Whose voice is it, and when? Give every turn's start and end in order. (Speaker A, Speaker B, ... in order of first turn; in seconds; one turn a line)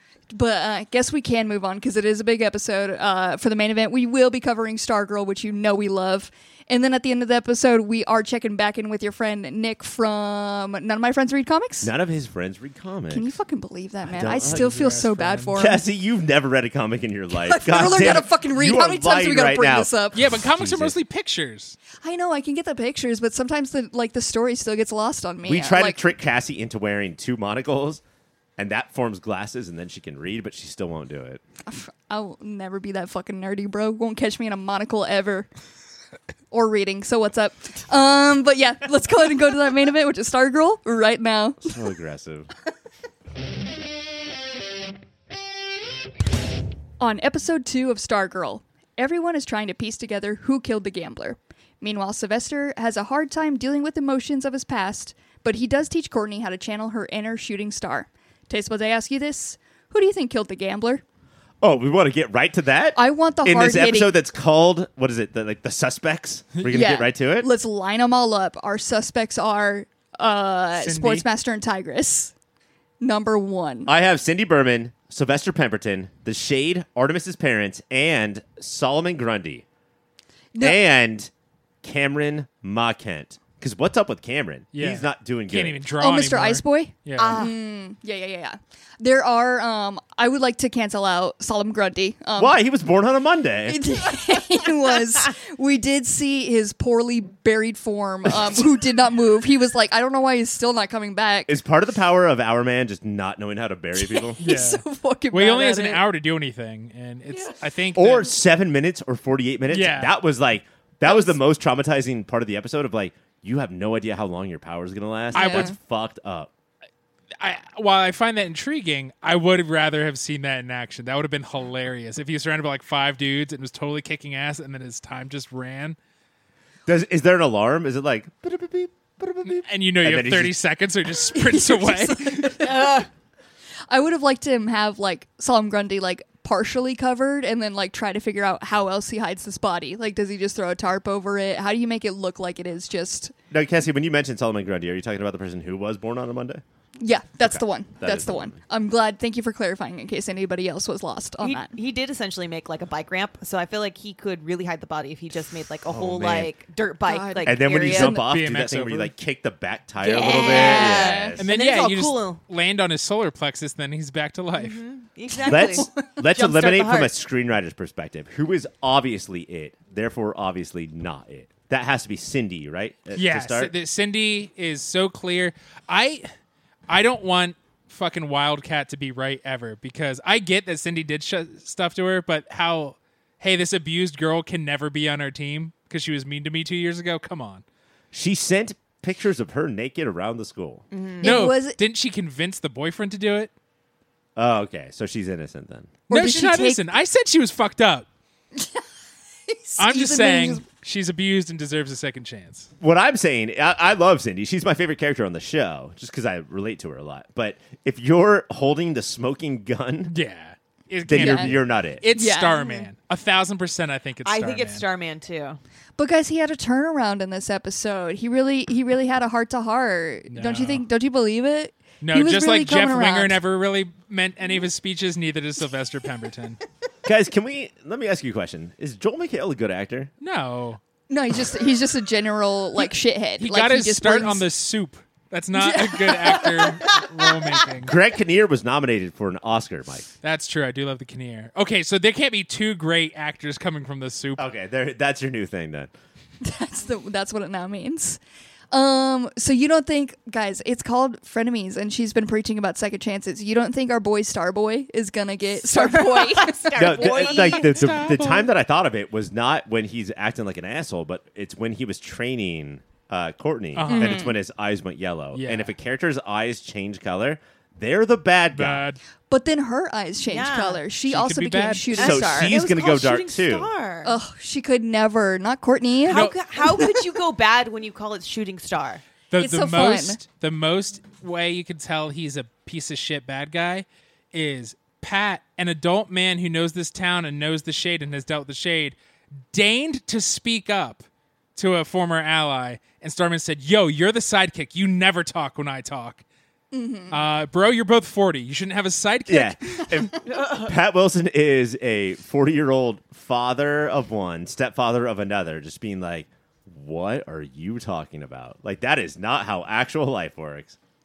Speaker A: 0.3-11.9
Speaker B: 11.8-13.3
Speaker A: 13.1-15.8
Speaker B: 14.1-14.7
Speaker C: 14.5-15.6
Speaker B: 15.6-21.0
Speaker A: 17.3-20.2
Speaker C: 20.1-21.8
Speaker A: 22.0-26.0
Speaker B: 25.5-28.0
Speaker B: 28.6-31.4
Speaker A: 31.7-35.5
Speaker A: 36.5-41.8
Speaker B: 41.6-42.5
Speaker A: 47.0-61.0
Speaker B: 61.6-67.5
Speaker A: 63.0-64.1
Speaker A: 66.7-72.3
Speaker C: 70.8-71.2
Speaker A: 73.0-73.9
Speaker B: 73.9-79.7
Speaker A: 80.5-80.8
Speaker B: 80.6-81.3
Speaker B: 81.8-85.8
Speaker C: 84.7-87.5
Speaker A: 86.0-92.6
Speaker D: 87.2-87.5
Speaker B: 92.4-93.8
Speaker A: 93.7-101.5
Speaker B: 98.3-98.6
Speaker B: 101.5-104.4
Speaker A: 104.0-106.0
Speaker C: 104.4-108.3
Speaker A: 107.3-107.6
Speaker B: 108.0-116.5
Speaker C: 109.7-110.2
Speaker A: 111.1-111.4
Speaker C: 115.3-115.7
Speaker A: 115.3-115.8
Speaker C: 117.4-126.0
Speaker B: 126.9-130.6
Speaker C: 129.5-132.7
Speaker A: 131.3-133.1
Speaker A: 133.9-143.3
Speaker B: 143.5-146.6
Speaker A: 147.0-151.7
Speaker B: 147.4-148.6
Speaker D: 151.4-158.2
Speaker B: 155.9-156.5
Speaker A: 157.1-158.3
Speaker B: 157.4-161.4
Speaker C: 158.0-159.1
Speaker D: 160.0-162.4
Speaker A: 160.2-161.4
Speaker C: 161.4-164.8
Speaker D: 164.6-167.1
Speaker B: 165.4-173.7
Speaker A: 165.6-165.9
Speaker C: 173.2-176.3
Speaker C: 176.9-187.6
Speaker B: 188.1-190.8
Speaker D: 190.9-191.4
Speaker A: 191.2-191.8
Speaker C: 191.2-193.5
Speaker B: 194.4-196.0
Speaker A: 196.1-196.8
Speaker C: 196.1-198.1
Speaker A: 199.5-200.6
Speaker C: 199.8-202.7
Speaker B: 202.8-210.2
Speaker C: 210.1-214.8
Speaker B: 211.1-212.0
Speaker A: 211.1-211.5
Speaker A: 212.1-212.9
Speaker D: 214.2-215.6
Speaker A: 216.0-223.4
Speaker C: 220.3-220.8
Speaker C: 222.0-226.6
Speaker B: 227.1-230.1
Speaker C: 230.2-230.8
Speaker A: 231.1-234.4
Speaker C: 232.8-237.9
Speaker A: 235.5-237.0
Speaker B: 237.8-240.1
Speaker C: 240.2-244.4
Speaker B: 244.4-245.9
Speaker A: 246.4-248.2
Speaker A: 248.7-257.8
Speaker D: 255.7-258.0
Speaker B: 256.8-268.8
Speaker C: 257.7-258.5
Speaker C: 263.8-264.2
Speaker A: 263.9-264.3
Speaker C: 265.3-265.7
Speaker C: 268.5-269.0
Speaker A: 269.3-272.6
Speaker D: 270.3-270.8
Speaker C: 271.1-272.0
Speaker D: 272.0-274.1
Speaker B: 272.0-273.7
Speaker A: 274.0-277.0
Speaker D: 276.0-279.0
Speaker C: 276.1-276.4
Speaker C: 279.3-289.0
Speaker A: 279.4-280.2
Speaker C: 289.5-291.0
Speaker C: 291.6-296.2
Speaker A: 296.7-297.2
Speaker C: 297.1-299.9
Speaker B: 299.3-310.8
Speaker D: 300.3-300.7